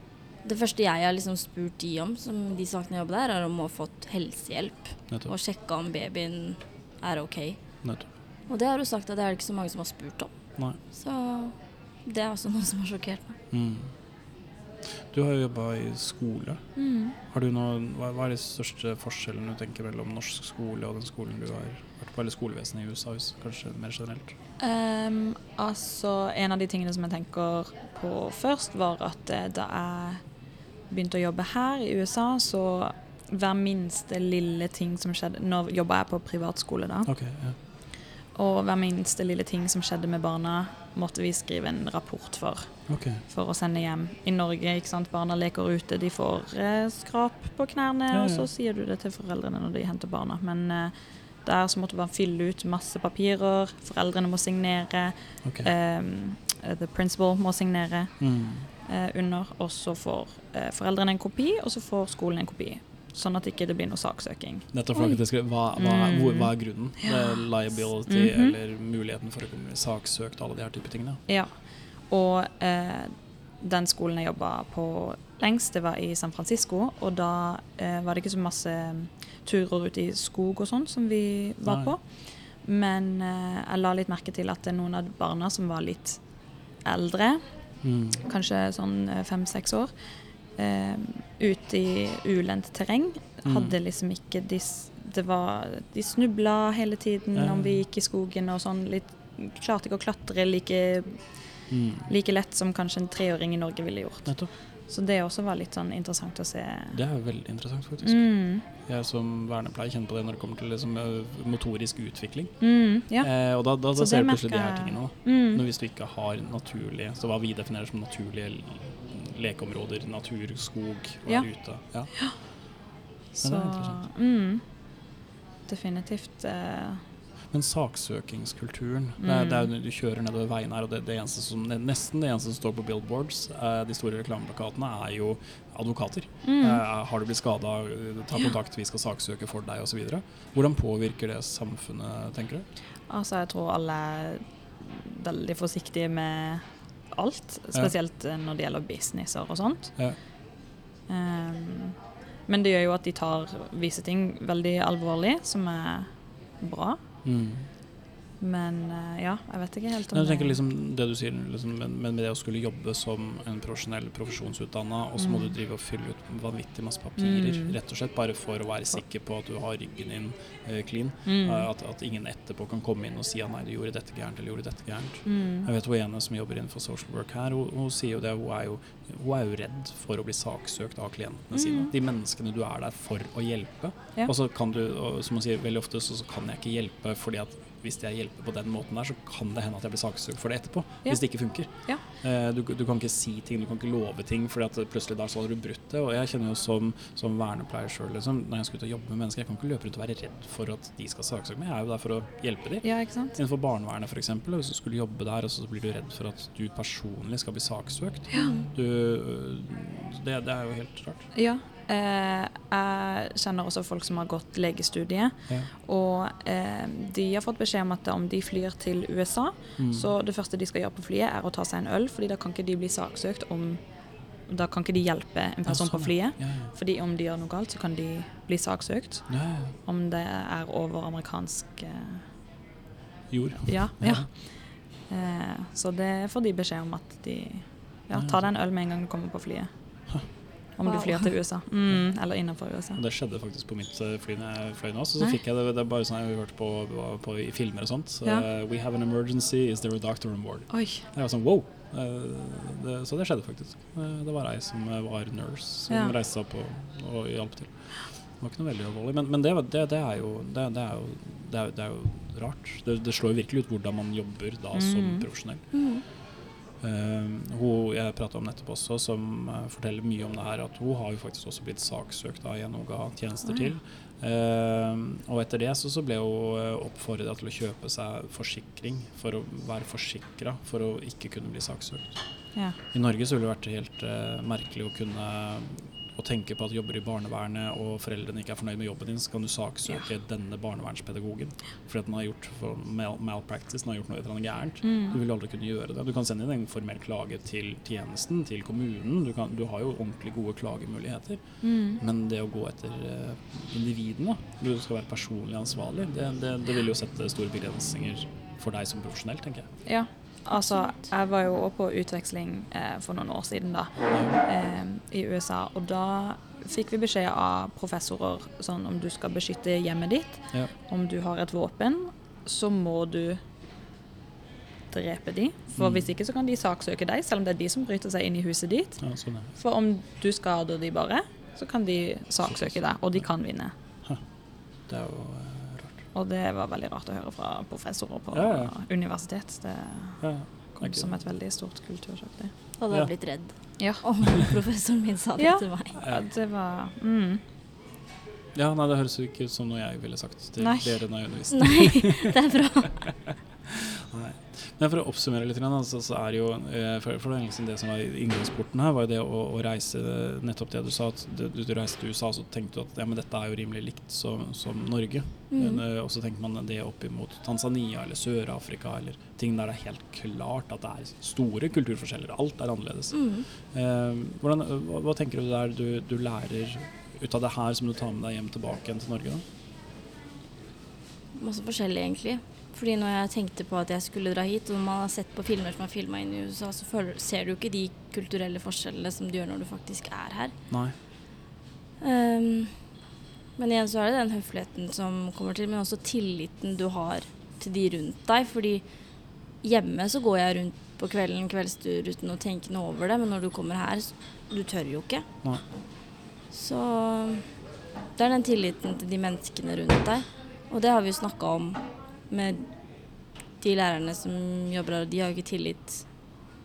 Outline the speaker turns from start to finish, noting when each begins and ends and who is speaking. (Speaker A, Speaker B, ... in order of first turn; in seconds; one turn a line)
Speaker A: 0.4-7.8
Speaker B: 7.8-8.1
Speaker A: 8.5-13.3
Speaker B: 13.5-13.9
Speaker B: 15.1-24.3
Speaker C: 16.8-17.1
Speaker C: 24.6-30.2
Speaker C: 30.9-37.1
Speaker B: 37.1-37.6
Speaker C: 38.3-64.7
Speaker B: 42.9-43.2
Speaker B: 48.1-48.5
Speaker B: 55.4-55.7
Speaker B: 58.2-58.7
Speaker B: 64.7-71.2
Speaker A: 64.9-65.2
Speaker C: 65.8-68.5
Speaker C: 71.3-86.2
Speaker B: 81.6-81.9
Speaker C: 86.8-87.4
Speaker B: 87.8-88.2
Speaker C: 88.2-89.9
Speaker C: 90.5-107.0
Speaker B: 93.4-93.8
Speaker B: 97.3-97.8
Speaker B: 101.7-102.1
Speaker B: 104.2-104.5
Speaker B: 106.9-122.5
Speaker C: 108.0-108.6
Speaker C: 112.6-115.6
Speaker C: 121.3-122.4
Speaker B: 123.3-124.0
Speaker C: 123.4-124.6
Speaker C: 125.7-127.0
Speaker B: 127.5-142.7
Speaker C: 129.2-129.7
Speaker C: 136.4-136.8
Speaker C: 143.1-149.9
Speaker C: 151.1-151.9
Speaker C: 152.5-157.0
Speaker B: 157.2-157.7
Speaker C: 158.4-160.6
Speaker B: 160.1-211.2
Speaker C: 165.2-165.5
Speaker C: 167.2-167.8
Speaker C: 171.2-171.7
Speaker C: 175.2-175.7
Speaker C: 181.5-181.9
Speaker C: 191.0-192.0
Speaker C: 202.8-203.3
Speaker C: 208.3-208.6
Speaker A: 208.3-208.7
Speaker C: 211.3-232.2
Speaker B: 219.8-220.1
Speaker B: 225.7-226.7
Speaker B: 229.3-229.7
Speaker B: 233.3-234.3
Speaker C: 233.6-243.0
Speaker B: 238.1-238.4
Speaker A: 240.8-241.2
Speaker B: 242.9-266.2
Speaker C: 250.7-251.0
Speaker C: 255.9-256.1
Speaker C: 264.7-265.3
Speaker A: 265.7-266.0
Speaker B: 266.8-309.7
Speaker C: 273.4-273.7
Speaker C: 294.8-295.2
Speaker C: 301.6-302.0
Speaker C: 309.9-323.4
Speaker B: 314.1-314.4
Speaker C: 324.9-333.7
Speaker B: 325.8-326.1
Speaker B: 329.0-329.5
Speaker B: 332.4-333.3
Speaker B: 334.9-336.0
Speaker C: 336.1-342.5
Speaker B: 338.3-338.7
Speaker B: 340.2-341.1
Speaker A: 342.8-346.0
Speaker C: 343.8-344.0
Speaker C: 345.4-347.4
Speaker B: 348.5-352.3
Speaker C: 350.6-351.0
Speaker A: 351.5-353.0
Speaker B: 354.1-379.4
Speaker A: 365.5-365.8
Speaker A: 373.1-373.4
Speaker A: 381.3-390.5
Speaker B: 390.7-390.9
Speaker A: 392.0-392.9
Speaker A: 393.6-405.2
Speaker A: 406.5-407.5
Speaker A: 408.1-412.8
Speaker A: 413.6-416.1